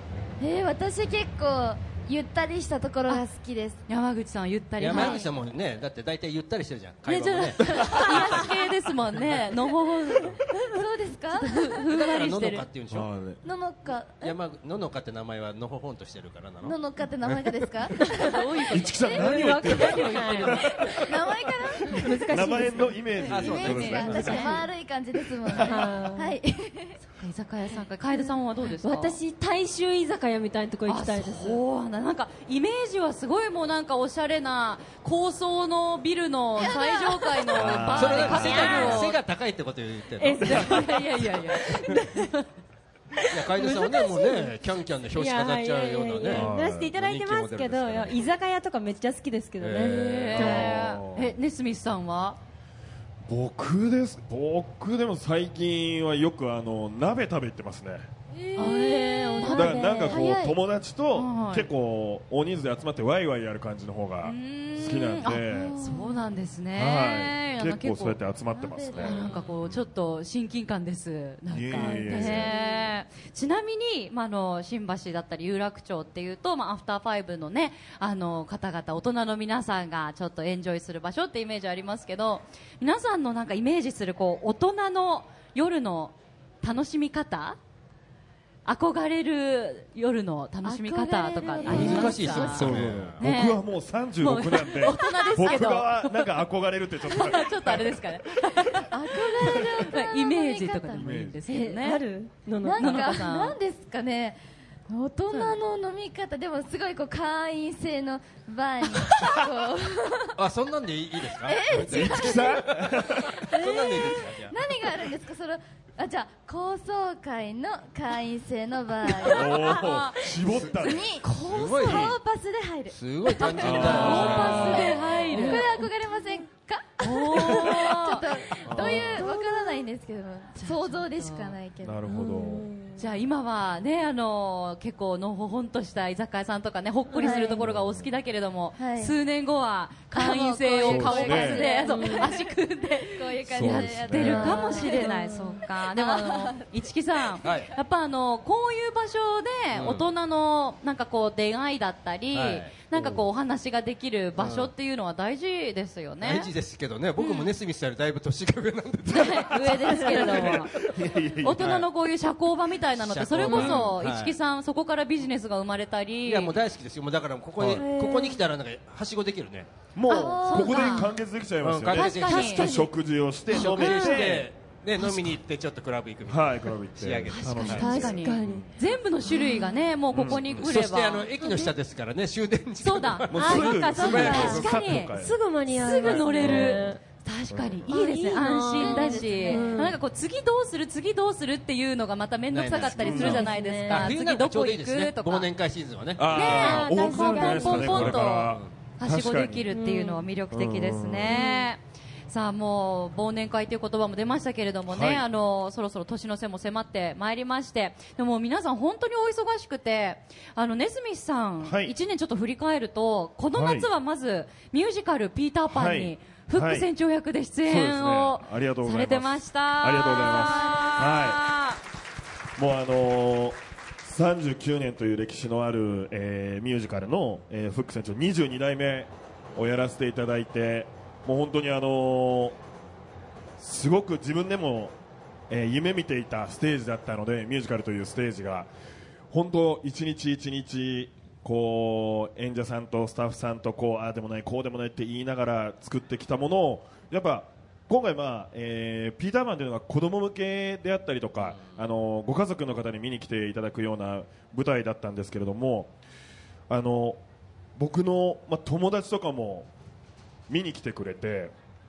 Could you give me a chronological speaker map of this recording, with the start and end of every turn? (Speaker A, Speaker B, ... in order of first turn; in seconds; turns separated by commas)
Speaker A: 0.4-3.8, Speaker B: 3.9-5.2, Speaker C: 4.8-8.5, Speaker A: 4.9-5.3, Speaker B: 7.1-10.4, Speaker D: 7.7-8.5, Speaker A: 10.7-11.7, Speaker B: 11.3-12.7, Speaker C: 11.9-13.1, Speaker E: 12.9-13.4, Speaker A: 13.4-14.3, Speaker C: 14.2-17.5, Speaker A: 16.6-19.3, Speaker D: 18.0-18.4, Speaker B: 18.2-20.7, Speaker E: 18.7-21.1, Speaker D: 19.1-20.6, Speaker A: 20.9-22.6, Speaker D: 21.9-22.9, Speaker E: 22.3-24.4, Speaker C: 23.3-24.7, Speaker A: 23.4-27.0, Speaker B: 23.4-24.6, Speaker D: 25.6-26.3, Speaker B: 27.0-29.2, Speaker D: 28.8-31.6, Speaker B: 30.9-39.2, Speaker A: 36.6-37.9, Speaker E: 37.5-38.9, Speaker C: 37.9-40.8, Speaker D: 38.3-39.0, Speaker D: 40.2-42.4, Speaker B: 40.5-42.3, Speaker D: 43.1-44.6, Speaker C: 43.3-48.3, Speaker D: 45.1-50.8, Speaker E: 46.3-46.9, Speaker C: 49.6-50.8, Speaker B: 50.0-52.4, Speaker E: 50.4-51.3, Speaker E: 53.2-58.1, Speaker A: 58.4-60.6, Speaker B: 58.5-60.2, Speaker D: 59.1-60.1, Speaker E: 59.5-65.7, Speaker B: 61.1-61.7, Speaker B: 64.2-68.2, Speaker A: 65.5-66.2, Speaker E: 66.7-69.8, Speaker A: 68.5-69.4, Speaker B: 69.0-87.6, Speaker E: 71.5-72.5, Speaker D: 71.8-72.2, Speaker A: 71.8-72.9, Speaker B: 88.6-92.7, Speaker A: 90.6-92.9, Speaker C: 91.6-93.2, Speaker E: 91.7-98.7, Speaker B: 93.2-93.6, Speaker B: 94.2-96.4, Speaker A: 95.0-95.5, Speaker B: 97.1-102.1, Speaker A: 98.9-101.1, Speaker E: 100.9-101.4, Speaker D: 101.4-103.2, Speaker A: 102.6-110.4, Speaker B: 102.7-103.6, Speaker B: 105.3-105.6, Speaker C: 110.4-114.6, Speaker A: 111.3-112.7, Speaker E: 111.7-113.5, Speaker D: 113.5-114.2, Speaker A: 113.6-119.8, Speaker E: 119.2-121.2, Speaker B: 119.7-120.2, Speaker A: 120.5-132.0, Speaker C: 121.3-122.1, Speaker E: 121.8-122.1, Speaker C: 122.9-124.9, Speaker B: 123.6-125.8, Speaker E: 123.6-125.3, Speaker D: 125.3-125.9, Speaker B: 127.0-128.2, Speaker E: 128.7-129.2, Speaker C: 128.7-129.1, Speaker D: 129.2-129.8, Speaker B: 130.6-131.6, Speaker E: 131.8-132.7, Speaker D: 132.1-133.1, Speaker B: 133.0-156.5, Speaker D: 137.1-137.5, Speaker A: 137.2-137.7, Speaker E: 137.6-138.1, Speaker A: 138.8-139.1, Speaker A: 140.1-142.5, Speaker E: 140.8-141.7, Speaker D: 141.8-142.3, Speaker A: 143.1-145.1, Speaker E: 143.5-144.6, Speaker D: 144.3-145.6, Speaker A: 145.8-146.8, Speaker C: 147.4-147.7, Speaker C: 149.7-150.1, Speaker C: 152.3-153.1, Speaker C: 154.4-154.7, Speaker C: 156.2-161.8, Speaker B: 157.2-157.5, Speaker B: 159.1-160.8, Speaker D: 159.8-160.5, Speaker E: 160.2-161.8, Speaker B: 161.4-166.6, Speaker C: 162.9-164.3, Speaker E: 163.4-163.9, Speaker C: 166.2-169.7, Speaker E: 167.6-167.8, Speaker D: 167.7-168.4, Speaker E: 169.9-174.5, Speaker B: 170.1-171.1, Speaker A: 170.1-171.1, Speaker C: 171.6-172.8, Speaker B: 171.9-172.7, Speaker C: 173.5-177.9, Speaker B: 173.7-174.2, Speaker E: 176.3-178.7, Speaker B: 177.3-181.7, Speaker D: 177.7-178.7, Speaker D: 179.3-179.7, Speaker E: 180.1-180.7, Speaker C: 180.2-184.7, Speaker B: 182.8-185.2, Speaker E: 183.3-185.4, Speaker D: 183.3-187.0, Speaker B: 185.7-195.5, Speaker E: 186.4-186.9, Speaker E: 187.5-187.8, Speaker D: 187.9-190.0, Speaker A: 188.7-189.8, Speaker C: 192.5-196.9, Speaker D: 192.8-194.1, Speaker E: 193.0-193.5, Speaker E: 196.2-199.7, Speaker B: 196.3-221.8, Speaker D: 196.5-198.0, Speaker C: 197.7-198.7, Speaker D: 199.7-200.3, Speaker E: 200.5-201.4, Speaker D: 201.3-201.7, Speaker E: 204.9-205.2, Speaker E: 211.6-211.9, Speaker E: 213.5-213.9, Speaker E: 215.7-216.9, Speaker E: 217.6-221.4, Speaker E: 222.6-232.6, Speaker E: 233.6-234.9, Speaker E: 235.5-238.7, Speaker E: 239.3-255.9, Speaker E: 256.7-257.2, Speaker E: 257.8-259.7, Speaker E: 260.5-261.5